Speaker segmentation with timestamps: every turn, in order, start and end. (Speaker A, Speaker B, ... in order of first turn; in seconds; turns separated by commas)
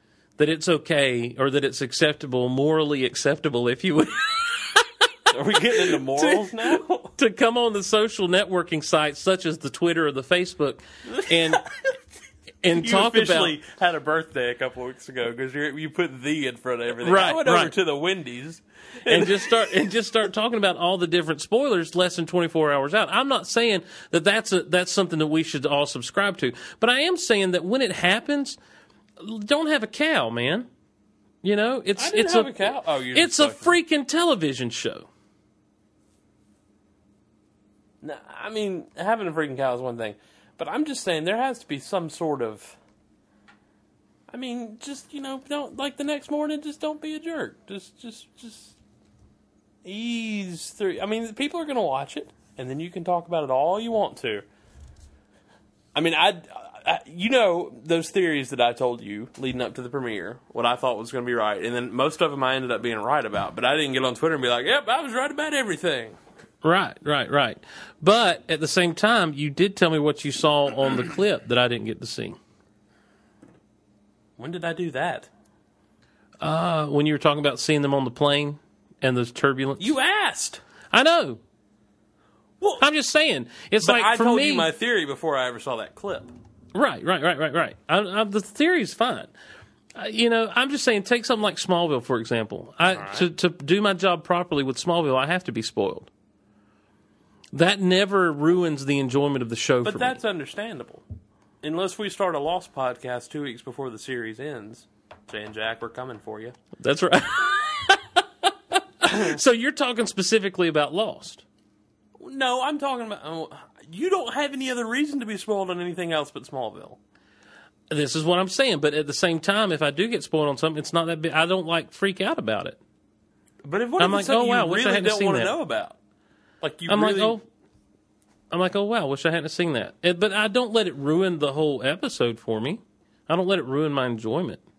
Speaker A: 0.4-4.9, Speaker B: 5.3-7.1, Speaker A: 5.8-11.6, Speaker B: 11.2-11.7, Speaker A: 12.6-13.5, Speaker B: 12.7-19.8, Speaker A: 17.0-17.7, Speaker A: 19.1-28.6, Speaker A: 29.2-30.7, Speaker A: 31.4-35.1, Speaker B: 32.0-33.7, Speaker B: 38.0-42.8, Speaker B: 44.3-48.8, Speaker B: 49.8-54.4, Speaker B: 55.9-66.2, Speaker A: 66.6-72.4, Speaker B: 74.4-75.3, Speaker A: 76.4-79.9, Speaker B: 79.8-80.6, Speaker A: 80.9-81.4, Speaker B: 82.6-82.8, Speaker A: 82.8-84.7, Speaker B: 83.8-86.3, Speaker A: 86.7-89.3, Speaker A: 89.9-96.1, Speaker B: 92.9-93.3, Speaker A: 97.5-100.2, Speaker B: 99.8-101.0, Speaker B: 101.6-106.5, Speaker A: 106.8-111.4, Speaker B: 109.1-109.3, Speaker B: 112.2-117.0, Speaker A: 117.9-122.8, Speaker B: 123.6-126.0, Speaker A: 124.0-125.5, Speaker B: 126.6-127.4, Speaker A: 126.9-127.4, Speaker A: 128.5-134.6